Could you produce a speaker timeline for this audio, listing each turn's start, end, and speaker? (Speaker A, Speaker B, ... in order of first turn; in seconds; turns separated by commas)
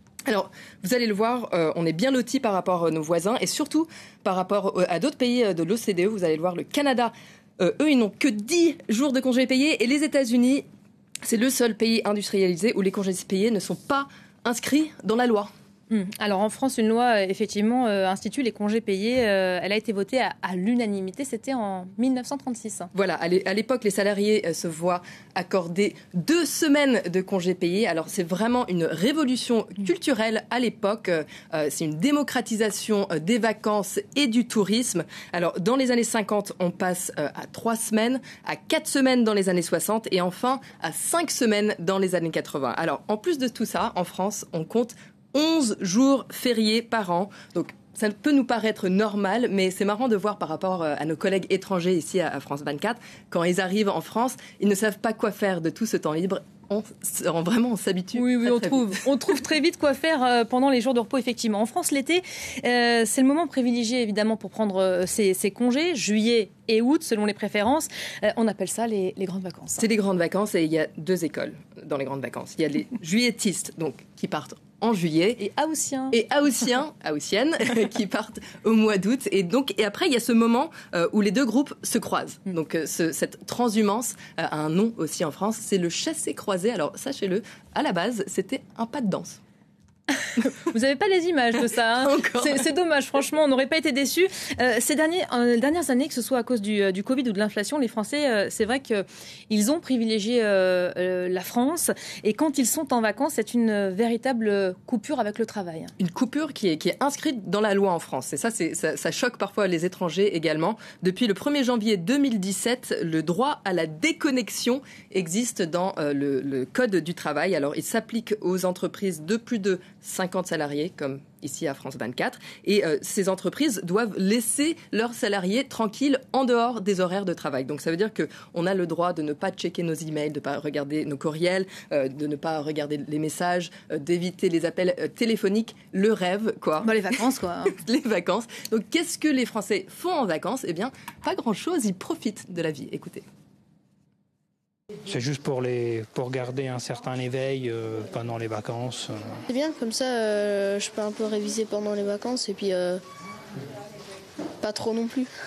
Speaker A: 0.3-10.6, Speaker A: 11.2-15.5, Speaker B: 15.9-22.9, Speaker A: 22.9-58.9, Speaker B: 58.1-69.8, Speaker A: 69.8-75.4, Speaker B: 75.4-76.1, Speaker A: 76.1-89.4, Speaker B: 90.4-105.9, Speaker A: 92.0-92.7, Speaker A: 106.0-143.2, Speaker B: 136.8-137.7, Speaker C: 145.1-149.4, Speaker D: 149.5-153.0, Speaker D: 154.6-155.3